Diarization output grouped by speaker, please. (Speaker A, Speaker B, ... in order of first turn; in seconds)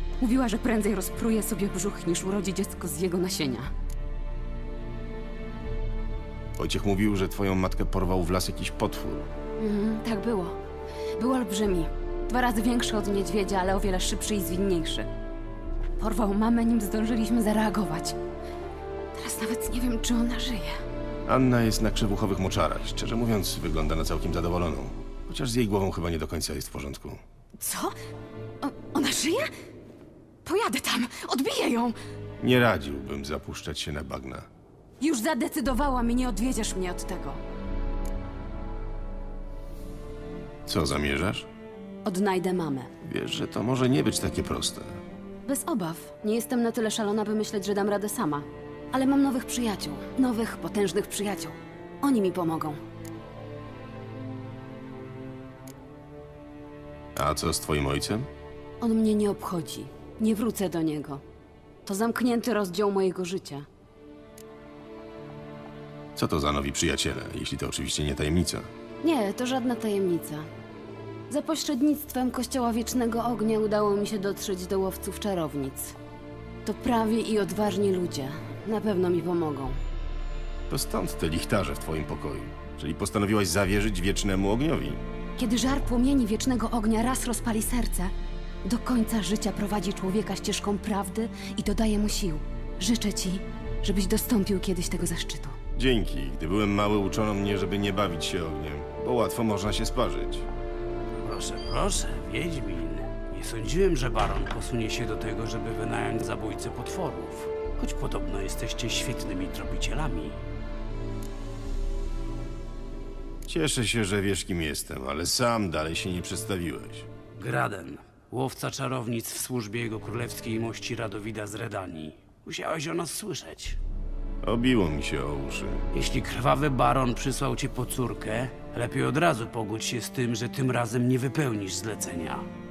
Speaker A: 0.2-3.7, 9.6-10.6, 11.2-15.1, 16.0-18.2, 19.1-20.7, 27.6-27.9, 28.6-29.5, 30.4-32.0, 35.0-37.4, 42.0-42.9, 45.5-52.8, 58.8-61.2, 61.9-63.7, 69.0-70.5, 71.3-76.0, 76.7-79.8, 85.4-88.1, 88.7-95.5
Speaker B: 6.6-9.2, 21.3-27.2, 32.4-34.5, 40.7-41.5, 43.0-45.0, 57.2-58.3, 66.2-68.7, 80.7-85.0, 95.8-100.5, 113.5-117.1, 124.4-125.9
Speaker C: 101.2-110.4, 117.4-123.8, 125.9-132.5